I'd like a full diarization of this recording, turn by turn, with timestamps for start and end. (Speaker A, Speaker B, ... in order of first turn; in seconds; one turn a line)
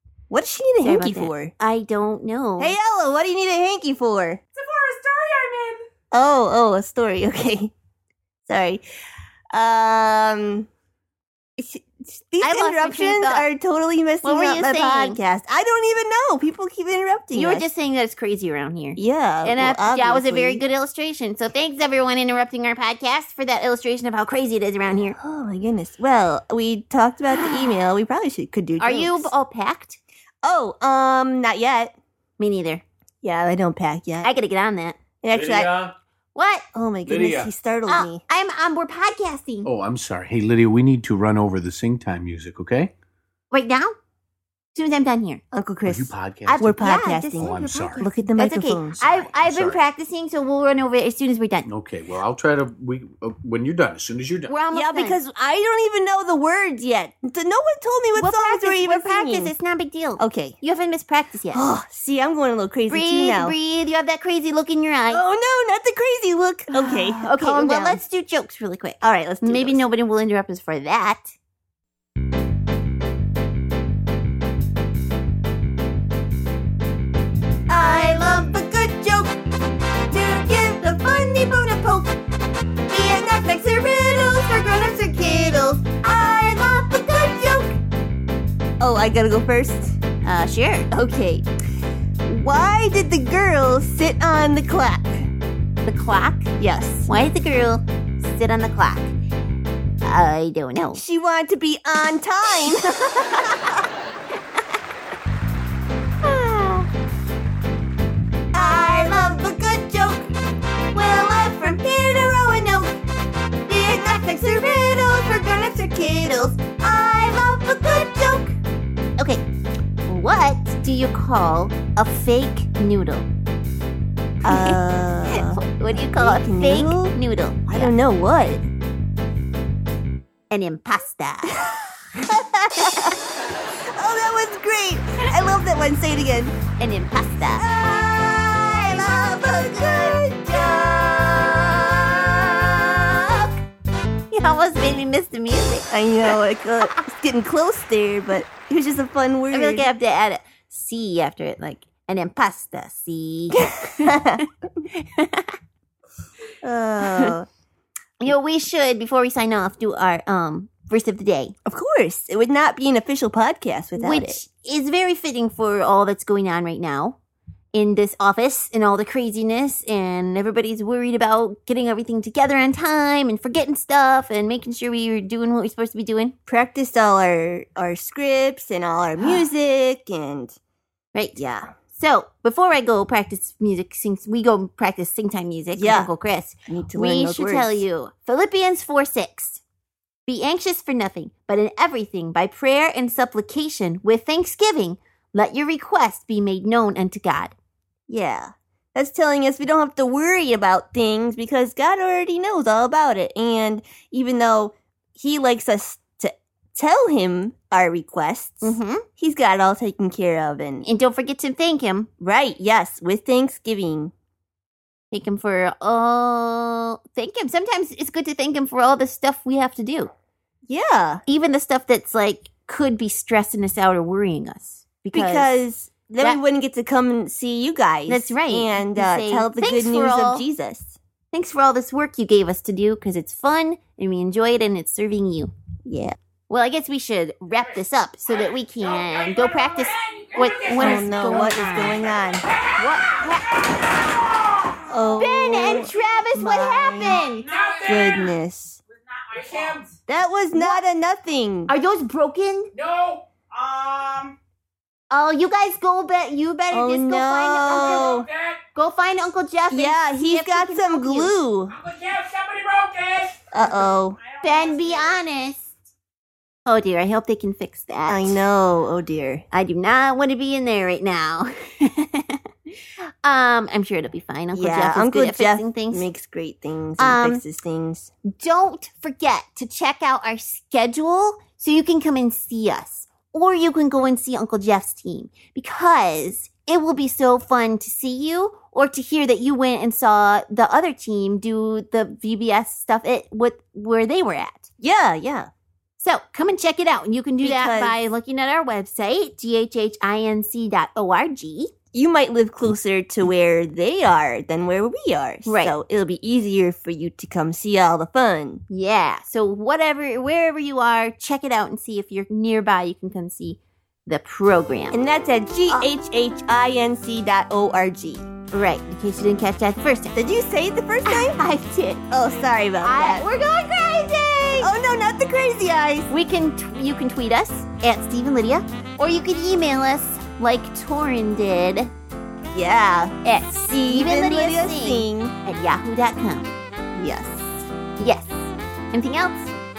Speaker A: 0.3-1.5
Speaker B: 0.8-2.8
Speaker A: 2.6-4.4
Speaker C: 4.5-5.8
Speaker A: 6.1-7.7
Speaker A: 8.4-8.8
Speaker A: 9.5-10.7
Speaker A: 11.6-17.7
Speaker B: 12.4-13.5
Speaker B: 14.2-15.2
Speaker B: 17.3-25.2
Speaker A: 19.0-20.6
Speaker A: 24.9-29.3
Speaker B: 28.8-30.0
Speaker A: 30.4-31.9
Speaker B: 32.4-32.8
Speaker A: 33.2-34.3
Speaker B: 34.2-35.0
Speaker A: 35.2-35.8
Speaker D: 35.3-35.9
Speaker B: 36.3-36.6
Speaker A: 36.7-38.2
Speaker D: 37.1-37.5
Speaker B: 37.9-39.7
Speaker D: 39.6-42.9
Speaker B: 43.5-43.9
Speaker B: 44.7-45.4
Speaker A: 45.5-49.7
Speaker D: 45.8-48.1
Speaker B: 46.4-51.7
Speaker D: 49.1-49.8
Speaker D: 51.6-54.5
Speaker B: 54.5-55.2
Speaker A: 54.7-59.5
Speaker B: 58.1-61.7
Speaker A: 60.2-60.6
Speaker A: 61.5-63.5
Speaker B: 62.9-65.2
Speaker A: 65.1-68.0
Speaker B: 66.7-71.3
Speaker A: 69.0-69.8
Speaker A: 77.7-79.4
Speaker A: 80.1-82.1
Speaker A: 82.9-87.8
Speaker A: 88.8-90.0
Speaker B: 90.2-90.9
Speaker A: 90.9-91.4
Speaker A: 92.3-95.3
Speaker B: 95.8-99.1
Speaker A: 96.6-97.1
Speaker B: 100.0-101.0
Speaker A: 100.9-102.9
Speaker B: 102.9-103.4
Speaker A: 106.2-106.9
Speaker A: 108.5-110.3
Speaker A: 110.9-113.0
Speaker A: 113.7-118.5
Speaker B: 119.2-119.4
Speaker B: 120.0-123.3
Speaker A: 124.4-127.2
Speaker B: 124.4-127.9
Speaker A: 127.7-128.6
Speaker B: 130.5-131.6
Speaker A: 131.6-133.2
Speaker B: 132.8-133.1
Speaker A: 133.9-136.5
Speaker B: 136.8-137.7
Speaker A: 137.6-143.5
Speaker B: 138.7-139.8
Speaker B: 144.3-145.9
Speaker A: 145.9-149.9
Speaker B: 149.5-154.4
Speaker A: 154.0-154.4
Speaker B: 154.9-155.6
Speaker A: 156.6-157.5
Speaker B: 157.0-157.3
Speaker B: 158.2-161.5
Speaker A: 161.7-164.4
Speaker B: 164.0-167.2
Speaker B: 167.7-176.3
Speaker A: 176.5-180.5
Speaker B: 179.2-179.4
Speaker A: 181.3-181.7
Speaker B: 181.9-189.6
Speaker A: 185.8-186.1
Speaker A: 186.7-187.8
Speaker B: 190.2-197.5
Speaker A: 198.1-210.9
Speaker B: 208.6-209.0
Speaker B: 210.8-212.1
Speaker A: 212.2-214.1
Speaker B: 215.1-220.1
Speaker A: 220.7-221.2
Speaker B: 221.3-225.5
Speaker A: 225.1-231.0
Speaker B: 228.1-230.4
Speaker B: 231.3-235.5
Speaker A: 235.8-236.2
Speaker B: 236.5-242.0
Speaker C: 238.3-244.9
Speaker A: 240.8-242.4
Speaker B: 242.8-243.6
Speaker A: 244.9-247.3
Speaker B: 245.2-247.5
Speaker C: 247.4-248.3
Speaker A: 247.9-248.8
Speaker C: 248.9-249.9
Speaker A: 250.1-251.7
Speaker B: 250.5-250.8
Speaker B: 251.7-252.7
Speaker C: 252.7-254.3
Speaker B: 255.1-258.2
Speaker A: 256.7-258.3
Speaker C: 257.6-258.6
Speaker B: 258.7-261.3
Speaker A: 259.7-261.8
Speaker C: 261.7-265.2
Speaker A: 263.5-264.2
Speaker B: 264.4-265.7
Speaker B: 266.6-268.4
Speaker A: 268.1-269.4
Speaker B: 269.5-272.4
Speaker B: 273.2-276.1
Speaker A: 274.5-278.1
Speaker B: 277.0-277.4
Speaker B: 278.3-294.7
Speaker A: 294.8-295.5
Speaker B: 296.0-301.7
Speaker A: 297.4-298.0
Speaker A: 301.9-308.6
Speaker B: 305.4-305.7
Speaker B: 308.7-315.0
Speaker A: 314.9-318.2
Speaker B: 318.5-320.1
Speaker A: 320.1-321.4
Speaker B: 321.0-322.0
Speaker A: 322.1-323.2
Speaker B: 322.8-324.7
Speaker A: 324.6-326.1
Speaker B: 326.1-331.9
Speaker A: 332.5-333.1
Speaker B: 333.2-336.5
Speaker A: 333.7-335.3
Speaker A: 336.9-337.6
Speaker B: 338.0-339.5